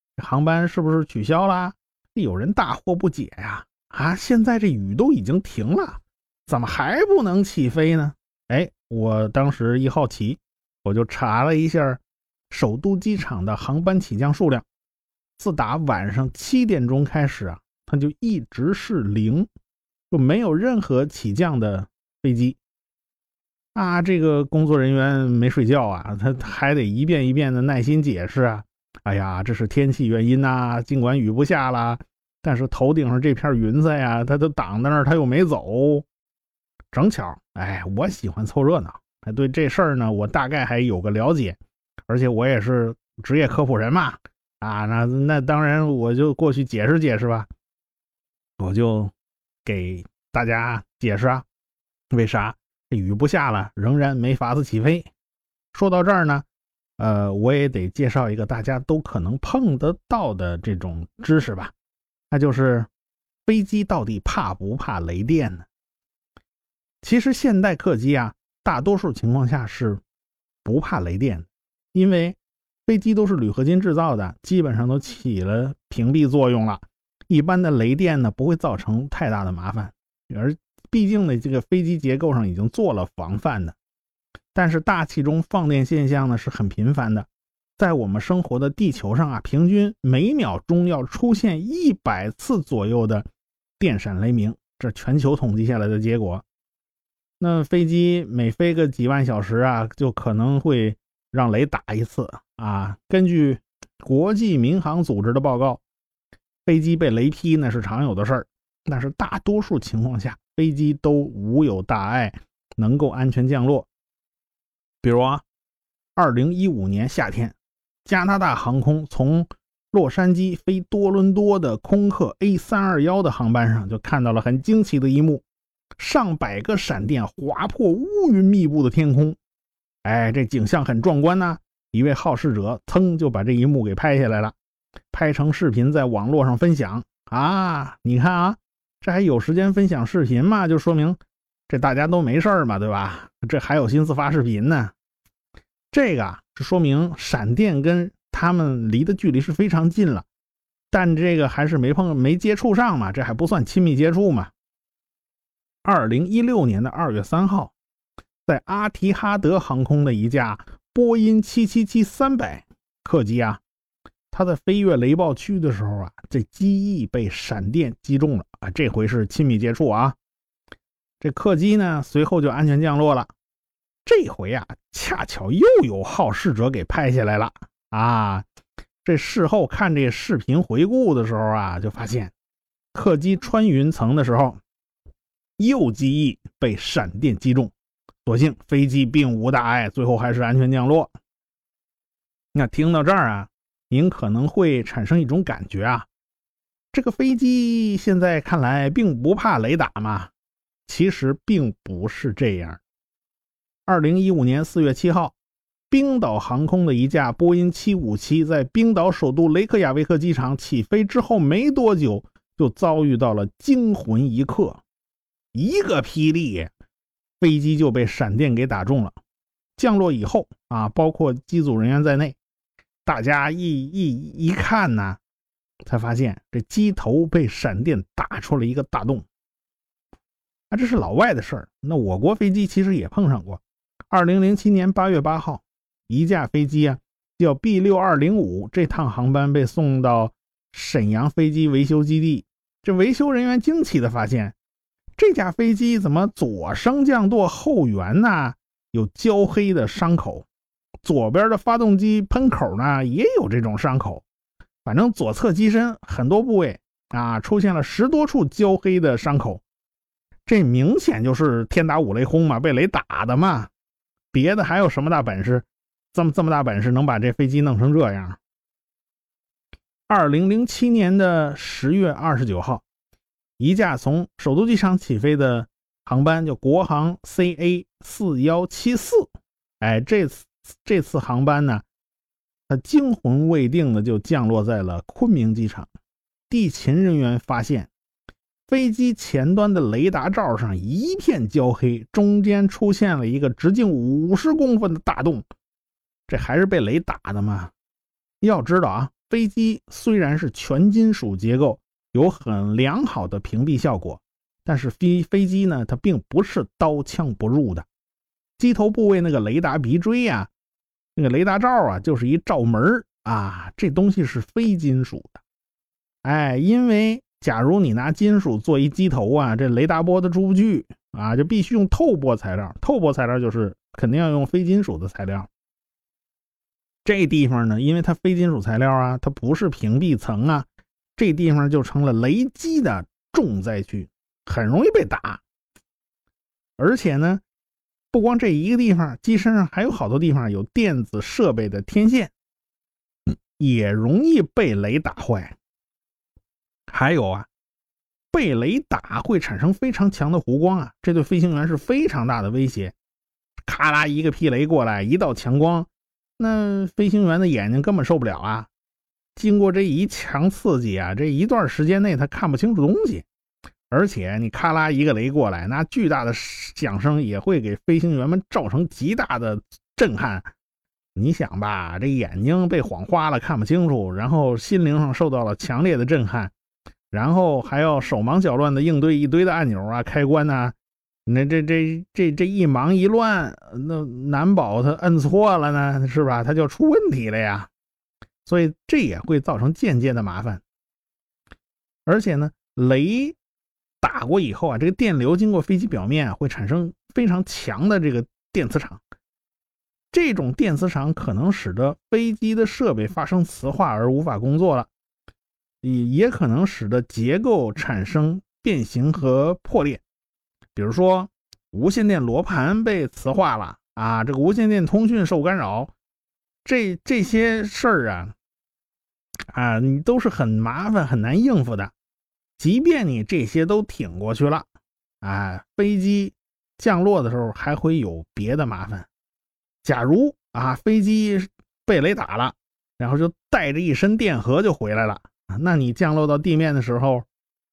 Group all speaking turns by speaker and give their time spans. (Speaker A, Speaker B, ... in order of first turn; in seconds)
Speaker A: 0.2-14.7, 15.4-19.5, 20.1-22.6, 23.7-36.0, 36.9-41.6, 42.1-47.5, 48.6-49.1, 49.6-51.5, 52.1-55.1, 55.7-56.5, 57.0-61.7, 62.3-62.9, 63.5-65.7, 67.0-70.0, 70.6-83.8, 84.5-93.2, 93.8-96.4, 97.4-105.8, 106.7-113.9, 115.0-115.4, 116.2-125.4, 126.0-129.4, 130.0-134.5, 135.1-141.2, 141.7-144.9, 145.9-150.3, 150.9-154.5, 155.8-157.7, 158.4-163.6, 164.3-170.2, 171.2-173.3, 174.0-178.4, 179.0-182.3, 182.9-184.6, 185.6-187.7, 188.2-191.1, 192.5-196.1, 196.9-200.3, 200.8-202.8, 203.8-205.3, 205.9-214.8, 215.5-216.7, 217.4-219.2, 219.8-222.4, 223.0-225.2, 225.8-229.2, 230.7-244.6, 245.2-250.5, 251.0-254.2, 254.8-259.6, 260.4-263.7, 264.3-268.4, 270.1-272.8, 273.6-279.3, 279.8-281.8, 282.7-285.9, 286.5-287.9, 288.7-295.4, 296.3-297.7, 298.4-307.9, 308.6-310.5, 311.1-315.4, 316.2-325.5, 327.0-335.4, 336.8-337.4, 338.1-342.3, 343.6-345.6, 346.9-347.5, 348.3-352.9, 353.6-358.7, 359.4-363.2, 363.9-370.5, 371.1-376.5, 377.1-387.7, 388.4-390.6, 392.1-393.4, 394.0-399.0, 400.1-404.9, 405.8-410.0, 410.7-415.9, 416.6-418.4, 419.5-421.9, 422.6-424.7, 425.2-429.1, 429.8-437.2